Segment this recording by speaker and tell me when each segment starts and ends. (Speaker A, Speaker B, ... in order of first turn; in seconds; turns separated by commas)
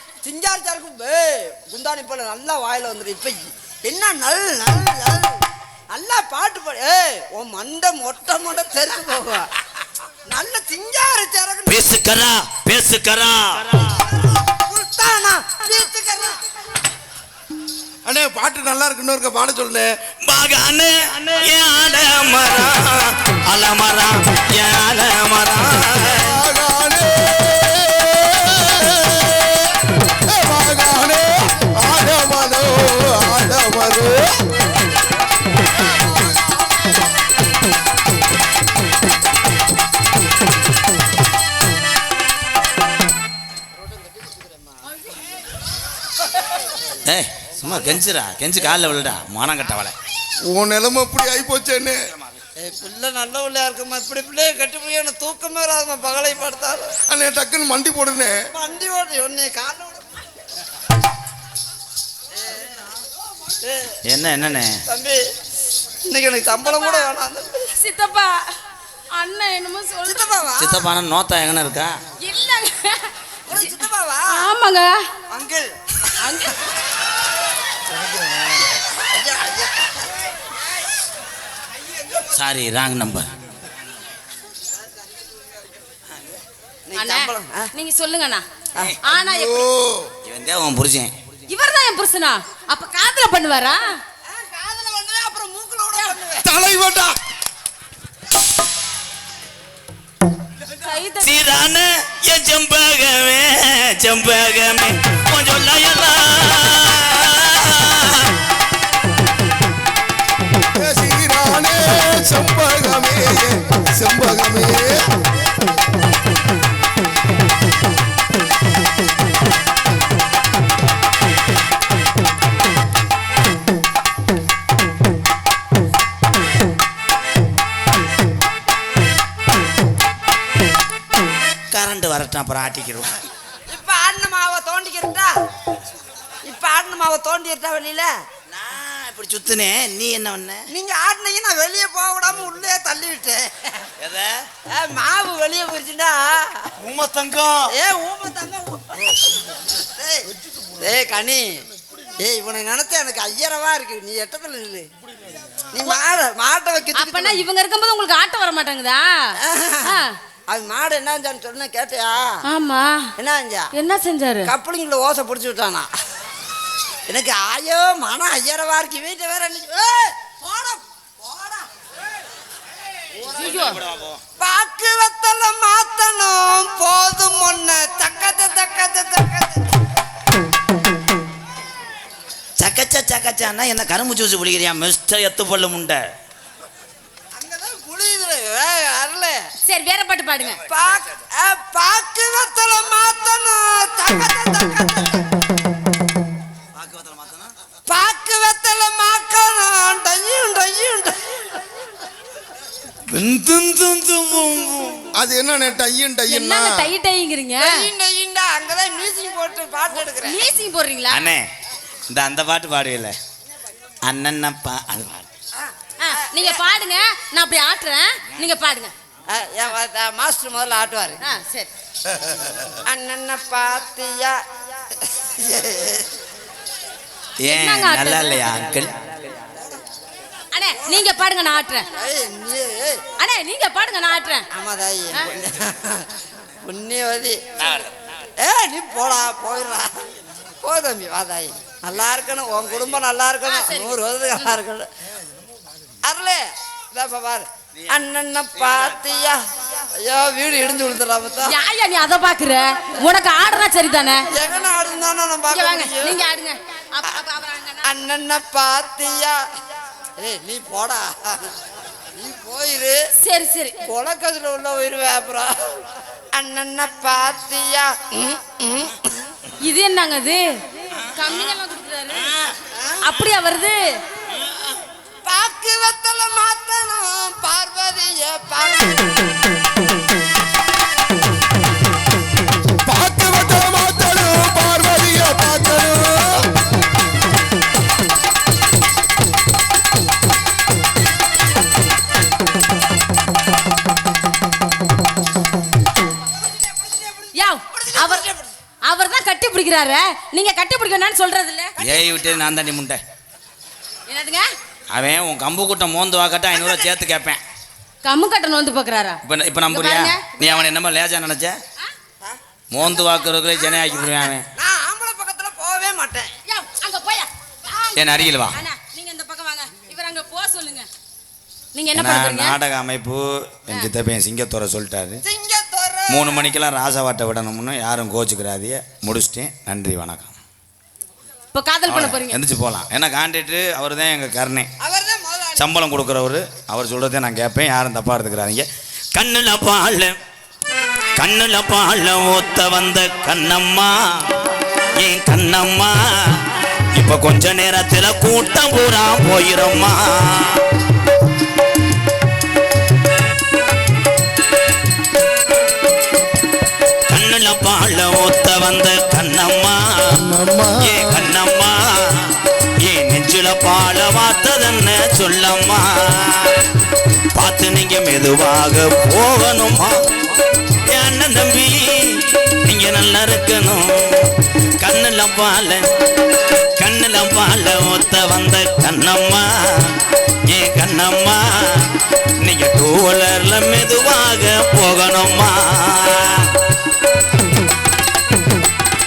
Speaker A: 0.2-5.4, Speaker A: 5.9-9.5, Speaker A: 10.3-11.8, Speaker B: 11.7-13.7, Speaker A: 14.2-16.4, Speaker C: 18.1-19.9, Speaker B: 20.2-26.4, Speaker C: 26.0-34.5, Speaker B: 47.0-49.9, Speaker C: 50.5-52.0, Speaker A: 52.6-57.0, Speaker C: 57.1-58.4, Speaker A: 58.5-60.1, Speaker A: 63.5-64.0, Speaker B: 64.1-64.8, Speaker A: 64.9-65.3, Speaker A: 66.1-67.7, Speaker D: 66.7-67.1, Speaker D: 67.8-68.5, Speaker D: 69.1-70.3, Speaker A: 70.0-70.8, Speaker B: 70.6-72.0, Speaker D: 72.2-73.6, Speaker A: 73.5-74.5, Speaker D: 74.3-75.0, Speaker A: 75.3-76.1, Speaker D: 76.2-76.6, Speaker A: 79.0-80.0, Speaker B: 82.2-83.3, Speaker A: 86.9-87.7, Speaker D: 87.0-88.5, Speaker D: 89.0-89.7, Speaker C: 89.1-90.1, Speaker B: 90.2-91.1, Speaker D: 91.5-94.0, Speaker A: 94.3-96.5, Speaker C: 96.4-97.2, Speaker D: 100.8-101.4, Speaker B: 101.2-108.3, Speaker C: 110.8-115.1, Speaker B: 131.7-133.1, Speaker A: 133.7-135.4, Speaker A: 136.4-138.1, Speaker B: 138.5-140.7, Speaker A: 140.7-143.9, Speaker B: 144.0-144.4, Speaker A: 144.7-146.7, Speaker B: 146.8-147.7, Speaker A: 147.7-150.3, Speaker A: 150.8-151.5, Speaker A: 152.2-154.9, Speaker A: 155.7-157.4, Speaker D: 156.9-160.2, Speaker A: 159.4-162.4, Speaker D: 162.5-163.1, Speaker A: 163.2-163.7, Speaker D: 163.7-164.5, Speaker A: 164.4-165.9, Speaker A: 167.1-171.7, Speaker B: 173.2-174.2, Speaker D: 173.4-173.8, Speaker A: 174.4-179.6, Speaker B: 182.6-186.0, Speaker A: 187.4-189.5, Speaker D: 189.6-190.6, Speaker A: 190.7-195.3, Speaker B: 196.8-197.5, Speaker A: 197.9-201.6, Speaker B: 203.1-205.1, Speaker C: 205.2-206.9, Speaker D: 206.3-207.8, Speaker A: 207.6-210.4, Speaker D: 210.2-211.3, Speaker B: 211.1-211.5, Speaker B: 212.1-213.2, Speaker B: 214.1-215.3, Speaker A: 215.6-216.6, Speaker D: 216.0-218.9, Speaker A: 219.3-221.2, Speaker D: 221.2-221.7, Speaker A: 222.9-226.1, Speaker B: 227.4-229.2, Speaker D: 227.4-228.4, Speaker A: 229.6-229.8, Speaker D: 230.5-231.9, Speaker A: 230.8-231.1, Speaker A: 232.0-233.0, Speaker D: 233.2-234.5, Speaker A: 234.5-236.1, Speaker A: 236.6-237.4, Speaker B: 237.6-237.9, Speaker A: 238.4-240.0, Speaker A: 240.6-244.9, Speaker D: 243.5-244.5, Speaker A: 246.0-251.5, Speaker B: 248.6-248.9, Speaker D: 251.4-254.3, Speaker A: 254.3-256.2, Speaker D: 255.5-257.9, Speaker A: 257.8-259.4, Speaker A: 260.2-261.5, Speaker A: 262.1-263.1, Speaker D: 263.2-263.8, Speaker A: 263.8-265.8, Speaker A: 266.3-269.2, Speaker D: 269.6-272.3, Speaker D: 273.0-273.8, Speaker A: 275.2-279.1, Speaker C: 282.8-286.5, Speaker A: 296.4-298.5, Speaker D: 297.4-298.3, Speaker D: 298.9-301.8, Speaker A: 301.8-302.4, Speaker B: 301.8-303.0, Speaker D: 304.1-304.5, Speaker B: 304.9-307.4, Speaker A: 306.5-306.9, Speaker D: 308.0-310.6, Speaker B: 309.2-311.6, Speaker B: 312.7-314.5, Speaker A: 314.6-316.3, Speaker D: 316.5-320.9, Speaker B: 317.9-318.6, Speaker D: 321.8-322.6, Speaker B: 321.9-325.2, Speaker A: 325.2-326.4, Speaker B: 326.1-330.3, Speaker D: 331.5-332.4, Speaker B: 331.9-334.7, Speaker A: 334.8-335.7, Speaker B: 335.6-340.2, Speaker B: 341.1-344.3, Speaker B: 345.0-346.4, Speaker B: 346.9-350.6, Speaker B: 357.1-360.2, Speaker C: 360.1-361.2, Speaker B: 360.8-366.6, Speaker B: 367.4-370.1, Speaker B: 370.9-375.9, Speaker B: 376.8-381.9, Speaker B: 382.4-386.5